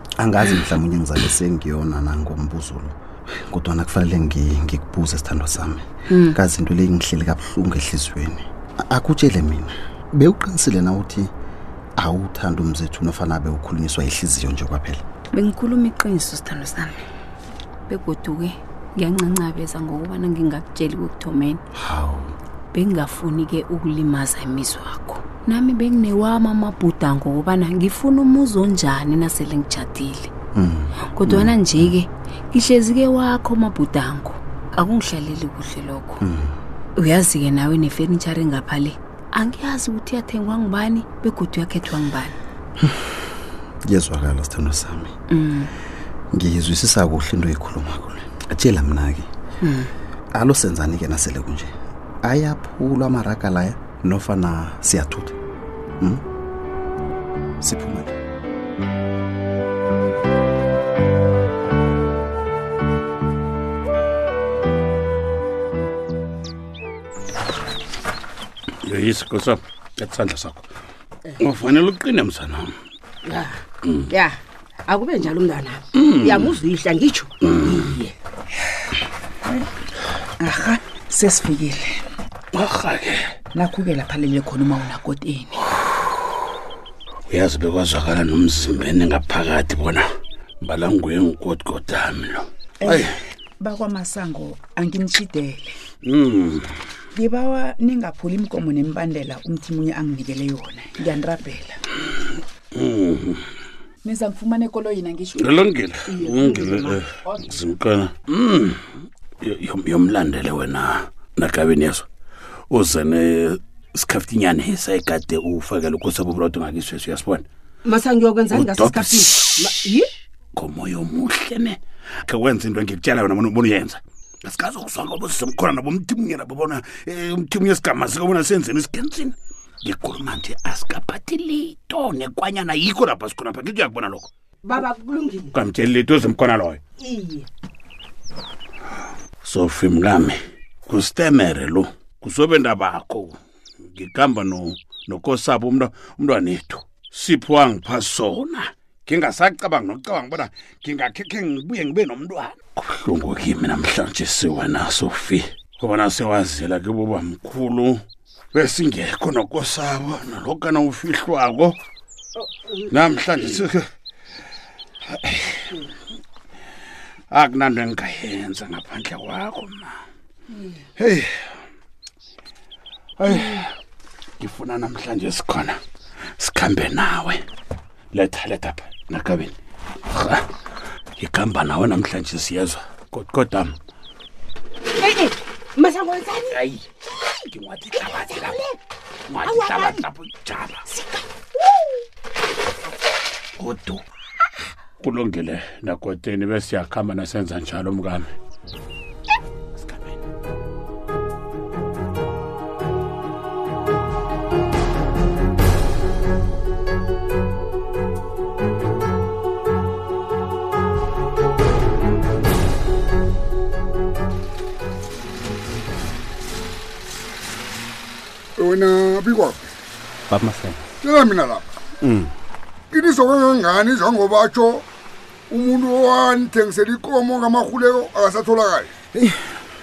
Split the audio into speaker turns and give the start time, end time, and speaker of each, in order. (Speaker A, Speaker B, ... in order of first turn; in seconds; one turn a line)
Speaker A: 0.2-11.3
Speaker B: 6.1-6.4
Speaker A: 12.0-15.0
Speaker B: 15.3-17.0
Speaker B: 17.9-21.6
Speaker A: 21.7-22.3
Speaker B: 22.7-30.3
Speaker A: 30.5-31.9
Speaker B: 31.1-36.2
Speaker A: 36.2-36.5
Speaker B: 37.0-42.4
Speaker A: 42.8-43.1
Speaker A: 43.8-45.1
Speaker B: 45.3-45.7
Speaker A: 46.3-49.3
Speaker B: 49.6-49.9
Speaker A: 50.3-51.7
Speaker A: 52.2-55.4
Speaker A: 57.6-58.1
Speaker C: 68.8-70.7
Speaker C: 71.4-72.7
Speaker D: 73.2-77.3
Speaker C: 75.9-76.6
Speaker C: 77.4-77.8
Speaker E: 80.4-82.0
Speaker C: 82.5-83.2
Speaker E: 83.5-85.6
Speaker C: 87.3-90.0
Speaker C: 90.6-93.1
Speaker E: 92.8-93.1
Speaker E: 93.6-95.7
Speaker C: 96.0-96.7
Speaker E: 97.1-101.8
Speaker C: 102.7-103.4
Speaker E: 104.0-105.5
Speaker C: 105.4-108.8
Speaker D: 106.1-107.0
Speaker E: 107.2-107.5
Speaker C: 109.4-112.0
Speaker C: 112.7-117.5
Speaker D: 117.8-120.1
Speaker C: 118.5-120.0
Speaker C: 120.5-134.3
Speaker D: 134.6-135.5
Speaker C: 135.5-136.8
Speaker D: 137.0-137.4
Speaker C: 139.4-143.4
Speaker C: 143.9-158.0
Speaker C: 158.5-161.8
Speaker C: 162.9-163.8
Speaker C: 165.2-165.7
Speaker C: 167.3-169.9
Speaker C: 171.0-171.3
Speaker C: 173.2-173.7
Speaker C: 174.4-175.8
Speaker C: 176.4-177.4
Speaker C: 178.1-179.5
Speaker C: 180.1-180.4
Speaker C: 181.2-183.7
Speaker D: 185.0-186.6
Speaker C: 186.5-188.6
Speaker D: 188.1-188.7
Speaker C: 189.3-190.8
Speaker D: 189.4-190.1
Speaker D: 190.9-191.2
Speaker C: 193.6-194.0
Speaker C: 195.0-198.3
Speaker C: 199.8-200.2
Speaker F: 218.6-219.6
Speaker A: 220.3-220.9
Speaker F: 221.0-221.6
Speaker A: 222.0-222.3
Speaker F: 222.9-224.8
Speaker F: 225.5-228.9
Speaker A: 229.1-229.5